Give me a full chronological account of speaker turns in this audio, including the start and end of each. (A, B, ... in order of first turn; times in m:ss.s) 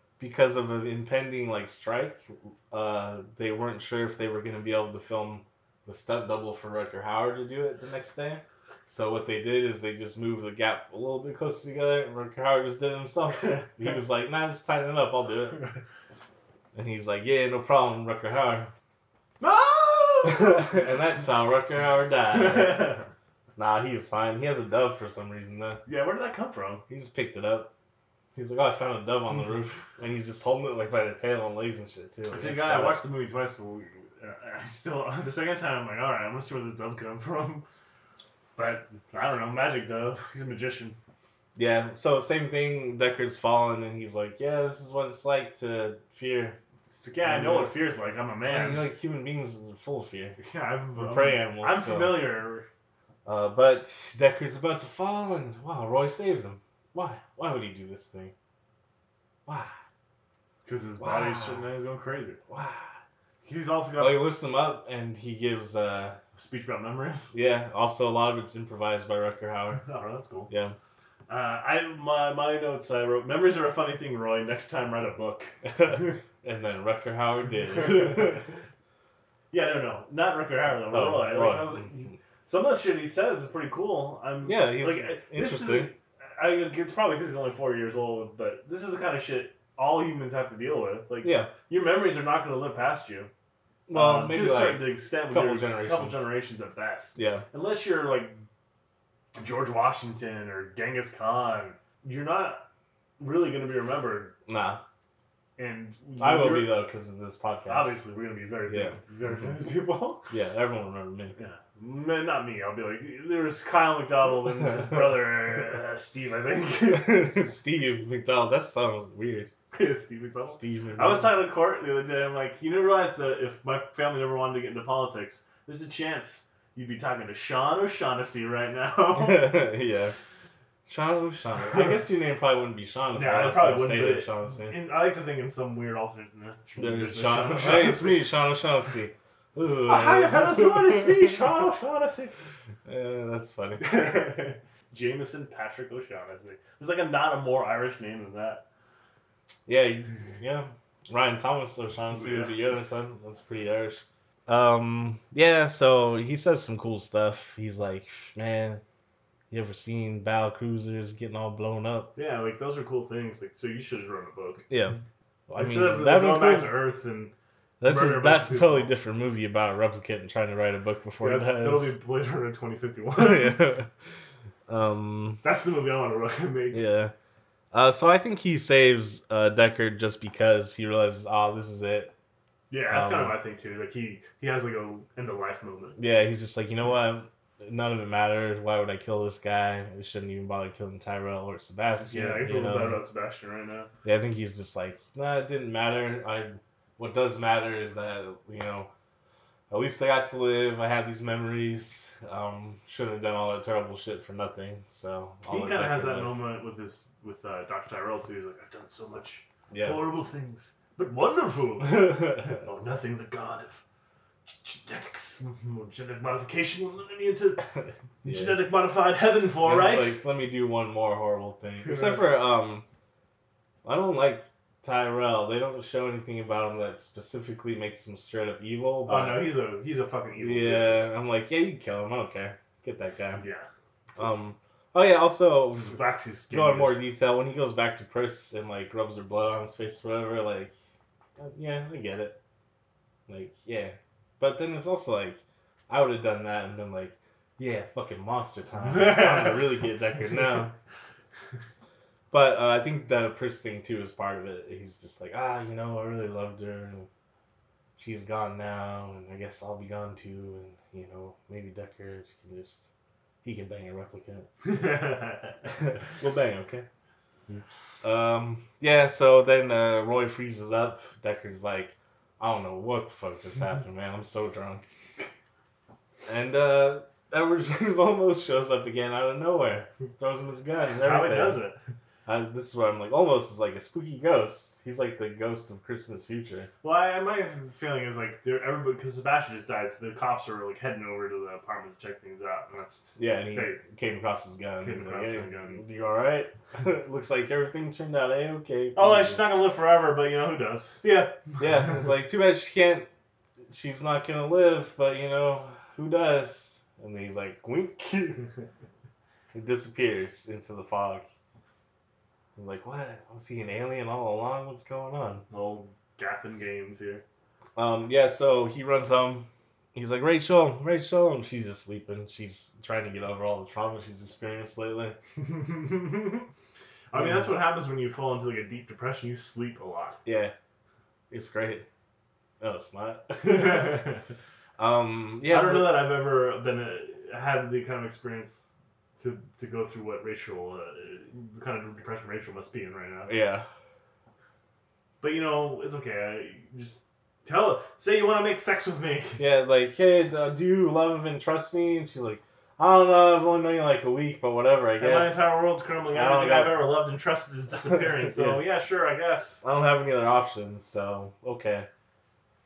0:00.2-0:15.6 A
0:16.7-0:18.7 A
0:19.4-0:20.9 B
0:20.2-0:23.0 A
0:22.3-0:23.1 B
0:23.6-0:25.8 A
0:25.8-0:26.8 B
0:26.9-0:27.7 A
0:28.3-0:33.0 A
0:32.3-0:37.6 B
0:38.6-0:41.0 B
0:41.6-0:46.6 A
0:46.9-0:48.9 B
0:47.2-0:47.7 A
0:48.4-0:50.4 A
0:50.4-0:52.6 B
0:51.0-0:52.3 A
0:53.3-0:58.3 A
0:59.4-0:59.8 A
1:00.6-1:02.4 B
1:01.0-1:01.7 A
1:02.5-1:03.0 A
1:03.4-1:04.4 B
1:04.0-1:06.2 A
1:06.4-1:07.3 B
1:07.3-1:09.8 A
1:09.8-1:10.5 B
1:10.5-1:10.8 A
1:11.3-1:16.2 B
1:15.6-1:18.6 A
1:17.6-1:18.5 B
1:19.5-1:33.3 B
1:20.9-1:21.9 A
1:24.4-1:25.9 A
1:31.2-1:31.5 A
1:33.9-1:36.3 A
1:33.9-1:38.4 B
1:37.2-1:37.4 A
1:39.3-1:42.6 B
1:43.2-1:44.4 B
1:44.4-1:44.8 A
1:45.6-1:46.8 B
1:46.2-1:48.0 A
1:47.6-1:50.3 B
1:48.7-1:49.6 A
1:50.3-1:51.4 A
1:51.4-1:57.4 B
1:54.7-1:55.1 A
1:56.9-1:59.5 A
1:59.7-2:09.6 B
2:00.5-2:01.3 A
2:09.1-2:10.1 A
2:10.9-2:14.8 A
2:13.1-2:18.3 B
2:16.8-2:21.6 A
2:19.8-2:22.3 B
2:22.8-2:24.2 A
2:23.8-2:28.6 B
2:29.7-2:38.8 A
2:32.1-2:32.5 B
2:39.5-2:42.1 A
2:42.2-2:44.6 B
2:44.7-2:45.0 A
2:45.5-2:46.7 A
2:45.6-2:47.3 B
2:47.8-2:51.9 A
2:47.8-2:48.9 B
2:51.2-2:53.6 B
2:53.1-2:53.9 A
2:54.7-2:55.4 A
2:55.4-2:56.8 B
2:56.7-2:57.1 A
2:57.7-3:02.1 A
3:02.7-3:06.0 B
3:02.9-3:03.3 A
3:06.0-3:13.0 A
3:12.0-3:13.9 B
3:14.0-3:18.9 A
3:19.7-3:26.4 A
3:25.5-3:33.8 B
3:29.7-3:30.1 A
3:31.9-3:32.6 A
3:34.5-3:37.7 B
3:38.2-3:40.2 B
3:38.2-3:38.6 A
3:39.6-3:42.8 A
3:41.8-3:42.2 B
3:43.8-3:49.5 A
3:49.0-3:51.1 B
3:50.4-3:53.4 A
3:53.4-3:54.4 B
3:54.2-3:56.0 A
3:55.7-3:57.0 B
3:56.5-4:00.7 A
4:01.4-4:02.4 A
4:03.3-4:10.8 A
4:08.8-4:09.6 B
4:12.3-4:17.1 A
4:18.0-4:22.9 A
4:23.4-4:24.5 A
4:24.6-4:25.7 B
4:25.7-4:26.8 A
4:27.5-4:34.9 A
4:36.3-4:41.6 A
4:40.9-4:41.8 B
4:42.3-4:46.7 A
4:46.8-4:53.8 B
4:53.2-4:59.6 A
4:54.8-4:55.8 B
4:58.9-5:01.9 B
5:01.6-5:03.1 A
5:03.7-5:08.4 A
5:09.5-5:11.3 A
5:12.6-5:15.4 A
5:15.5-5:17.2 B
5:17.8-5:25.2 A
5:25.4-5:26.5 B
5:27.1-5:30.2 B
5:27.1-5:27.6 A
5:30.2-5:30.5 A
5:31.3-5:31.8 A
5:32.6-5:34.1 A
5:33.4-5:34.3 B
5:34.8-5:36.0 A
5:35.5-5:43.3 B
5:43.3-5:43.7 A
5:45.2-5:49.4 B
5:49.4-5:56.8 A
5:55.0-5:59.6 B
5:57.8-5:58.6 A
5:59.6-6:01.9 A